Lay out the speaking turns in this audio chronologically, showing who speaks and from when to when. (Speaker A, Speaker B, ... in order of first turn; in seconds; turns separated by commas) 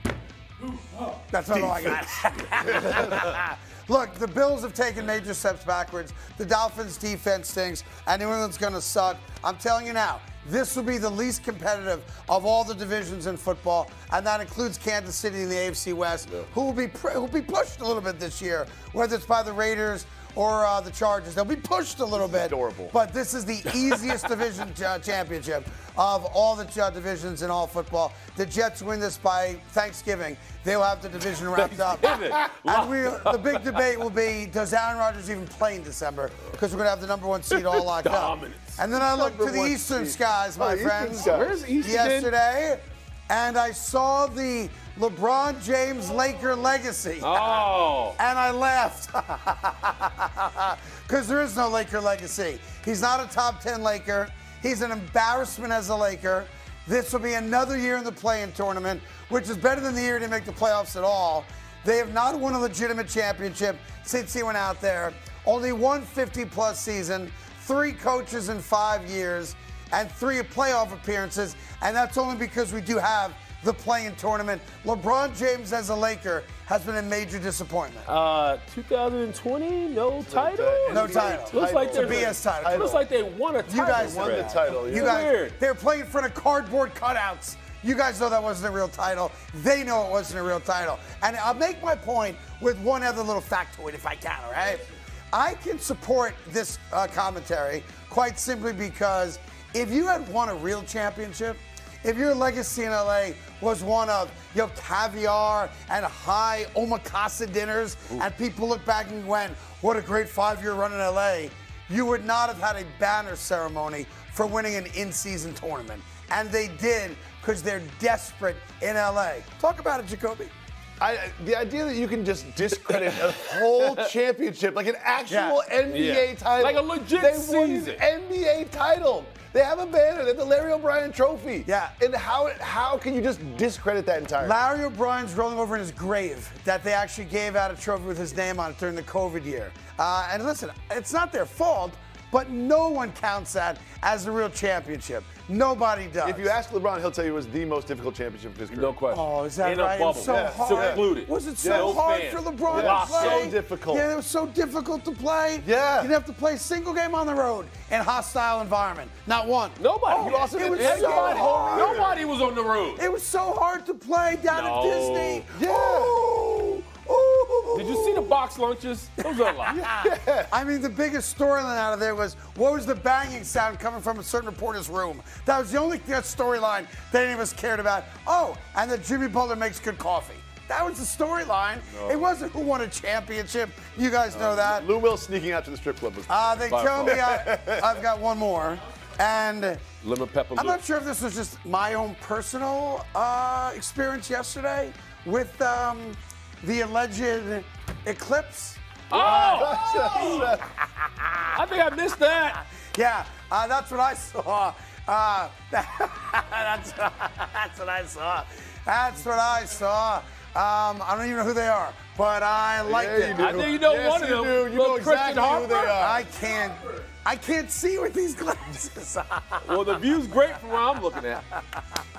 Speaker A: 0.6-1.8, Speaker B: 1.3-78.1, Speaker C: 22.1-22.9, Speaker A: 31.5-33.9, Speaker A: 37.5-38.8, Speaker C: 38.9-41.6, Speaker A: 41.2-42.3, Speaker A: 47.2-48.2, Speaker A: 78.1-85.6, Speaker C: 80.2-83.0, Speaker B: 80.9-83.0, Speaker B: 83.7-120.5, Speaker C: 83.9-85.2, Speaker C: 121.0-134.6, Speaker A: 123.3-124.0, Speaker B: 125.3-125.6, Speaker A: 125.9-128.0, Speaker B: 131.7-131.9, Speaker B: 134.4-146.5, Speaker C: 146.2-148.9, Speaker A: 148.7-153.5, Speaker B: 149.1-162.0, Speaker C: 150.2-151.1, Speaker C: 151.6-152.0, Speaker C: 152.7-154.1, Speaker C: 155.6-156.1, Speaker A: 159.8-163.0, Speaker C: 160.1-162.2, Speaker B: 163.0-168.3, Speaker A: 164.5-165.4, Speaker C: 165.5-166.2, Speaker A: 167.7-169.8, Speaker B: 169.2-184.9, Speaker C: 169.7-170.5, Speaker C: 181.9-182.3, Speaker C: 184.3-187.8, Speaker B: 186.3-189.8, Speaker A: 186.7-187.2, Speaker A: 190.0-190.8, Speaker B: 190.6-201.5, Speaker A: 199.1-200.5, Speaker C: 199.2-200.7, Speaker A: 201.5-202.6, Speaker B: 202.9-213.6, Speaker C: 212.8-216.3, Speaker A: 213.3-215.9, Speaker B: 215.8-220.0, Speaker A: 219.6-221.5